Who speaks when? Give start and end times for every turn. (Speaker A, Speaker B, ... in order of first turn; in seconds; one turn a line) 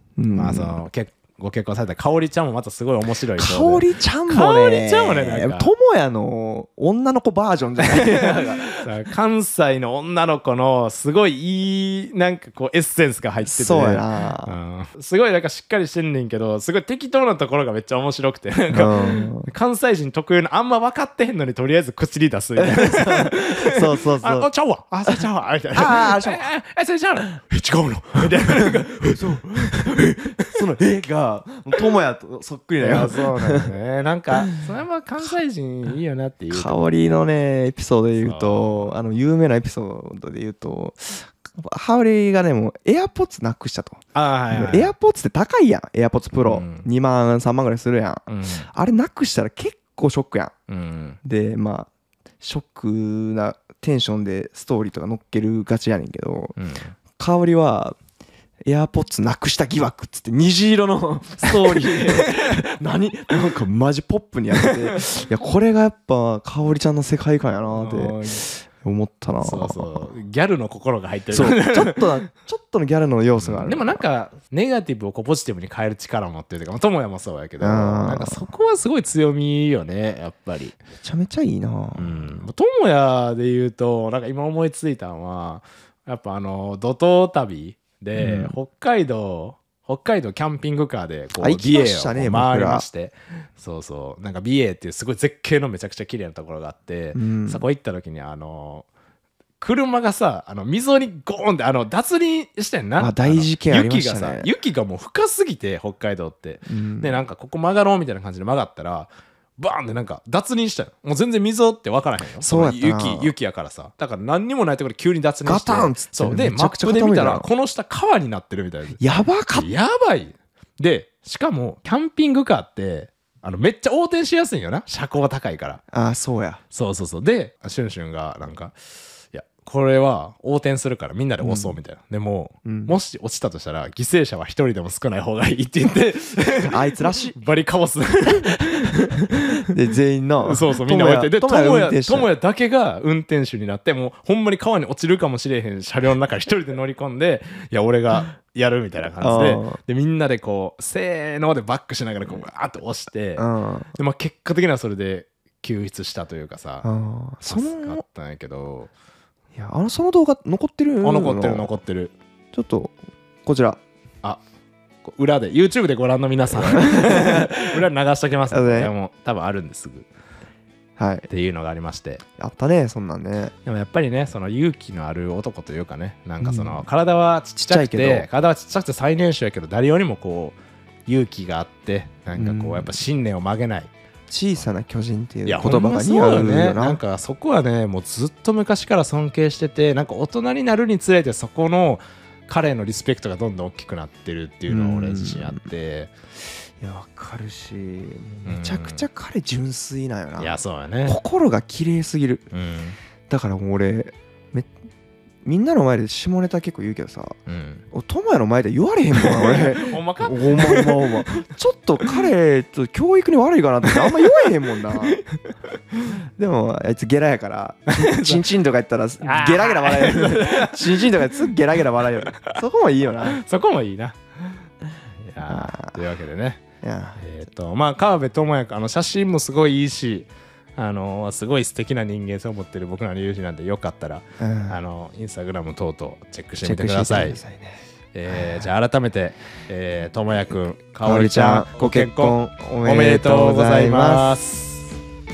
Speaker A: 0.2-0.8
Speaker B: 0.3-5.7
Speaker A: 3.4-8.9
Speaker B: 7.8-30.6
Speaker A: 13.4-14.6
Speaker A: 18.7-19.5
Speaker A: 22.6-24.5
Speaker A: 25.1-26.5
Speaker A: 28.5-33.8
Speaker B: 32.8-36.9
Speaker A: 34.3-34.6
Speaker A: 36.5-50.5
Speaker B: 38.2-39.0
Speaker B: 44.1-44.9
Speaker B: 46.4-46.9
Speaker B: 48.3-48.7
Speaker B: 50.7-51.2
Speaker A: 51.2-51.9
Speaker A: 52.4-56.6
Speaker B: 56.6-56.9
Speaker A: 57.2-58.0
Speaker A: 58.7-70.1
Speaker B: 61.4-62.4
Speaker B: 67.7-68.4
Speaker B: 69.4-72.1
Speaker A: 71.3-74.0
Speaker B: 73.4-80.8
Speaker A: 77.6-78.5
Speaker A: 81.0-82.4
Speaker B: 82.0-98.9
Speaker A: 88.2-88.6
Speaker A: 91.4-92.9
Speaker A: 97.1-97.6
Speaker B: 99.6-125.8
Speaker A: 103.0-104.5
Speaker A: 106.7-107.2
Speaker A: 112.4-113.3
Speaker A: 115.5-117.5
Speaker A: 119.0-119.7
Speaker A: 125.9-126.6
Speaker B: 126.7-128.7
Speaker B: 129.3-139.7
Speaker A: 131.4-131.8
Speaker A: 132.7-133.0
Speaker A: 136.6-137.4
Speaker A: 139.0-142.3
Speaker B: 140.4-156.9
Speaker A: 149.2-149.8
Speaker A: 153.4-153.9
Speaker A: 156.8-158.0
Speaker B: 157.5-158.9
Speaker A: 159.5-161.7
Speaker B: 161.0-162.1
Speaker A: 162.5-163.8
Speaker B: 165.0-170.1
Speaker A: 166.5-167.7
Speaker A: 168.5-168.9
Speaker A: 171.0-171.3
Speaker B: 171.3-172.2
Speaker A: 172.4-173.5
Speaker B: 173.7-183.9
Speaker A: 176.4-176.9
Speaker A: 177.6-178.3
Speaker A: 182.3-183.0
Speaker A: 184.3-187.0
Speaker B: 185.4-196.1
Speaker A: 194.7-195.7
Speaker A: 196.8-202.5
Speaker B: 198.4-199.1
Speaker B: 200.4-201.2
Speaker B: 202.5-203.0
Speaker A: 203.3-204.7
Speaker A: 205.4-207.4
Speaker B: 207.5-207.8
Speaker A: 207.9-215.2
Speaker B: 209.2-211.5
Speaker B: 214.7-215.4
Speaker A: 216.4-223.4
Speaker B: 218.0-218.4
Speaker B: 219.2-222.6
Speaker B: 223.2-224.6
Speaker B: 225.2-226.6
Speaker A: 225.4-226.0
Speaker A: 226.8-227.2
Speaker B: 227.2-237.4
Speaker A: 234.4-234.8
Speaker A: 236.6-238.7
Speaker B: 238.1-245.0
Speaker A: 241.0-244.4